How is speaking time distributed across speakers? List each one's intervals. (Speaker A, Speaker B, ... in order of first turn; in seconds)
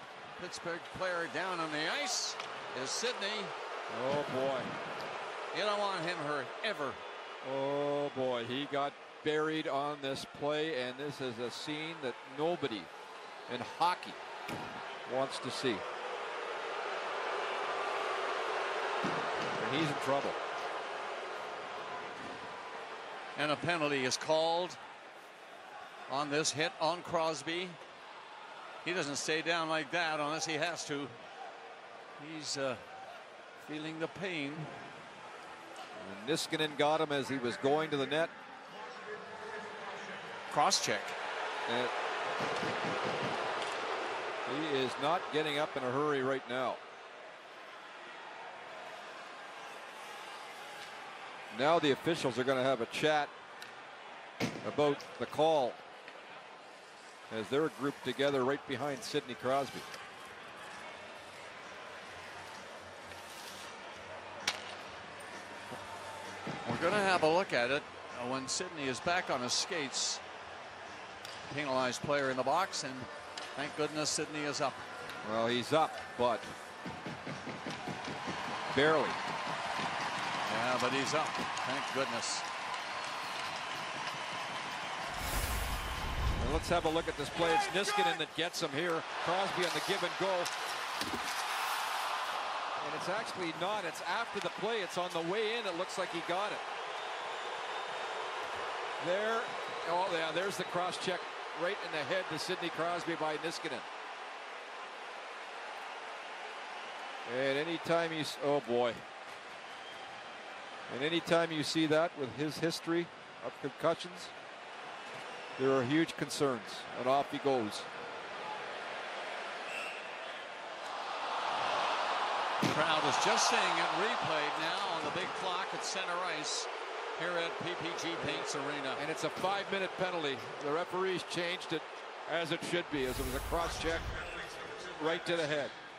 Speaker A: 0.4-3.5, 5.5-7.0, 23.4-24.8, 26.1-27.8, 28.8-31.2, 32.2-32.8, 33.6-34.8, 40.5-41.1, 66.6-70.2, 71.5-74.8, 80.4-82.5, 122.7-129.0
Speaker B: 3.9-4.7, 7.4-12.9, 13.5-14.2, 15.1-15.8, 19.6-20.4, 36.0-38.3, 41.7-41.9, 44.5-46.8, 51.5-53.3, 54.6-55.8, 57.3-59.9, 75.2-76.5, 78.7-79.2, 86.4-90.5, 92.8-96.6, 99.0-103.9, 107.3-109.0, 110.9-114.3, 115.6-117.9, 128.2-134.1, 135.0-135.7